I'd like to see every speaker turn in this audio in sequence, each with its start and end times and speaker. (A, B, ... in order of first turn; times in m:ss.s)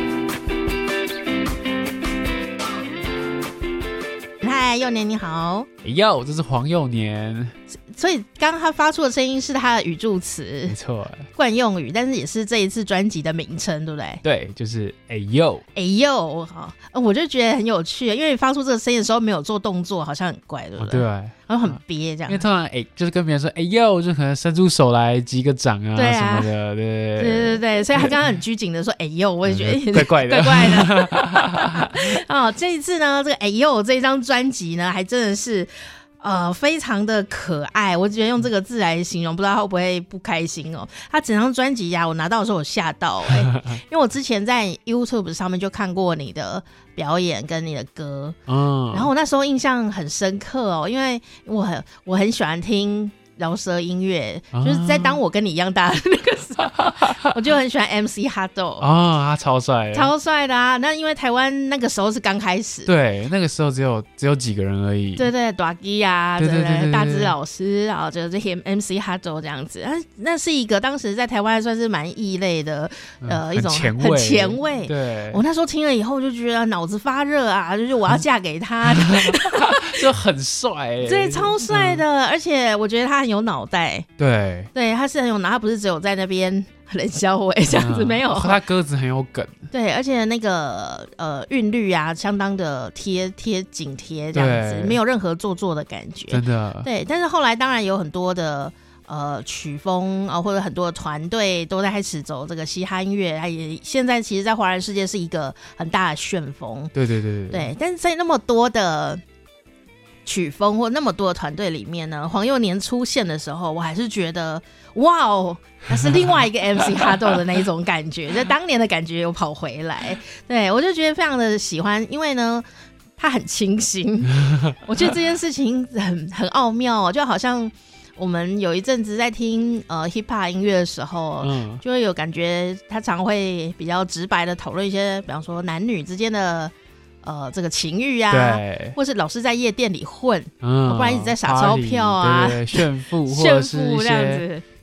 0:04.4-0:05.7 A
0:05.8-0:07.6 B
0:07.8-0:10.8 A
0:10.7-0:11.3 B
0:11.4-0:14.2 A
0:14.2-0:15.6 B
0:15.8-0:22.4 A
0:20.8-0:21.4 B
0:22.3-0:28.2 B
0:26.0-0:26.5 A
0:27.2-0:48.4 A
0:29.5-0:32.0 B
0:43.4-0:43.7 B
0:48.5-0:49.1 B
0:48.9-0:58.9 A
0:54.5-0:55.2 B
0:58.8-1:00.1 B
0:59.9-1:02.9 A
1:02.9-1:05.3 B
1:05.2-1:20.0 A
1:06.4-1:07.4 B
1:13.2-1:15.4 B
1:18.9-1:22.0 B
1:21.0-1:24.1 A
1:24.2-1:24.7 B
1:24.7-1:28.6 A
1:27.7-1:29.6 B
1:29.7-1:46.9 A
1:34.3-1:35.0 B
1:36.3-1:36.9 B
1:47.0-1:47.7 B
1:47.5-1:49.2 A
1:50.3-2:02.6 A
1:55.9-1:56.3 B
2:03.2-2:24.6 A
2:04.5-2:04.7 B
2:11.4-2:11.8 B
2:18.3-2:19.0 B
2:20.6-2:24.4 B